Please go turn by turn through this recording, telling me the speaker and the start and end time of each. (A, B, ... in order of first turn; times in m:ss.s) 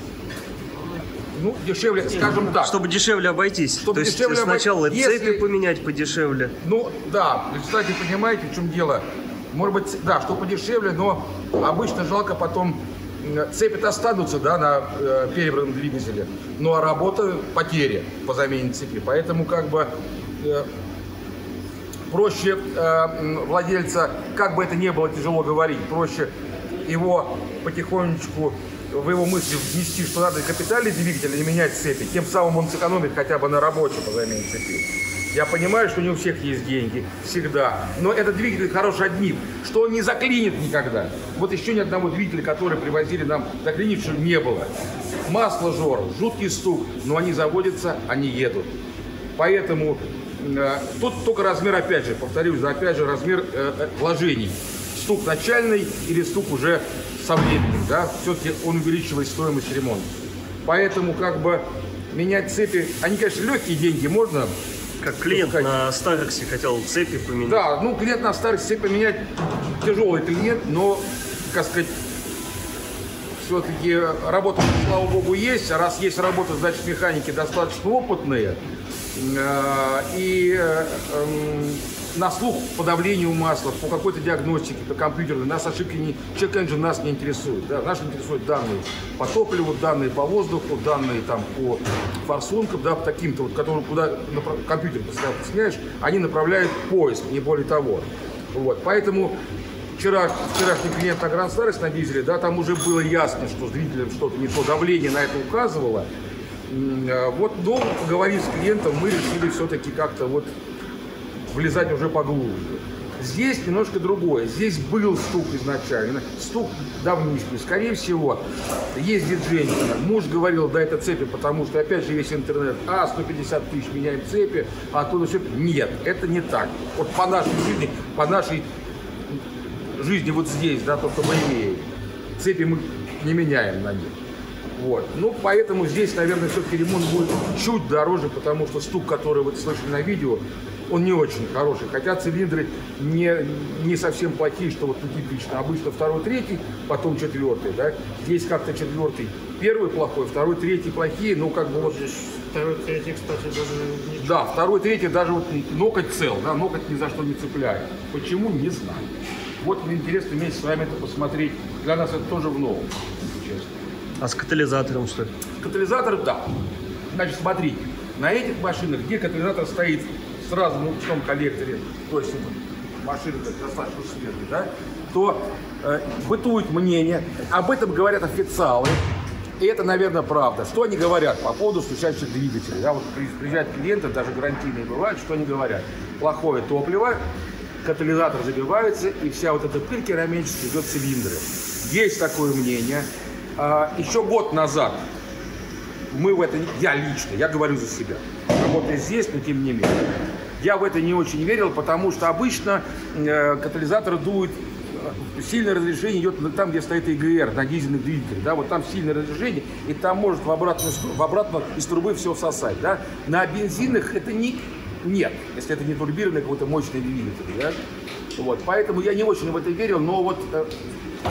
0:01.3-0:02.8 A
0:02.2-0:06.5 B
0:03.8-0:05.5 A
0:06.6-0:20.7 A
0:22.1-0:26.3 A
0:26.8-0:44.7 A
0:45.2-0:48.8 A
0:49.4-1:00.1 A
1:00.6-1:04.5 A
1:05.0-1:07.6 B
1:05.2-1:05.7 A
1:07.4-1:12.0 A
1:13.4-1:18.6 A
1:19.1-1:39.4 A
1:40.0-1:46.1 A
1:46.7-1:50.5 A
1:51.5-2:08.7 A
2:09.3-2:14.2 A
2:14.7-2:32.0 A
2:31.6-2:34.5 C
2:34.2-2:43.8 A
2:44.2-2:45.3 B
2:45.6-2:46.5 A
2:47.1-2:59.0 A
2:59.6-3:07.2 A
3:07.8-3:15.0 A
3:16.1-3:20.0 A
3:20.6-3:37.8 A
3:38.4-3:40.7 A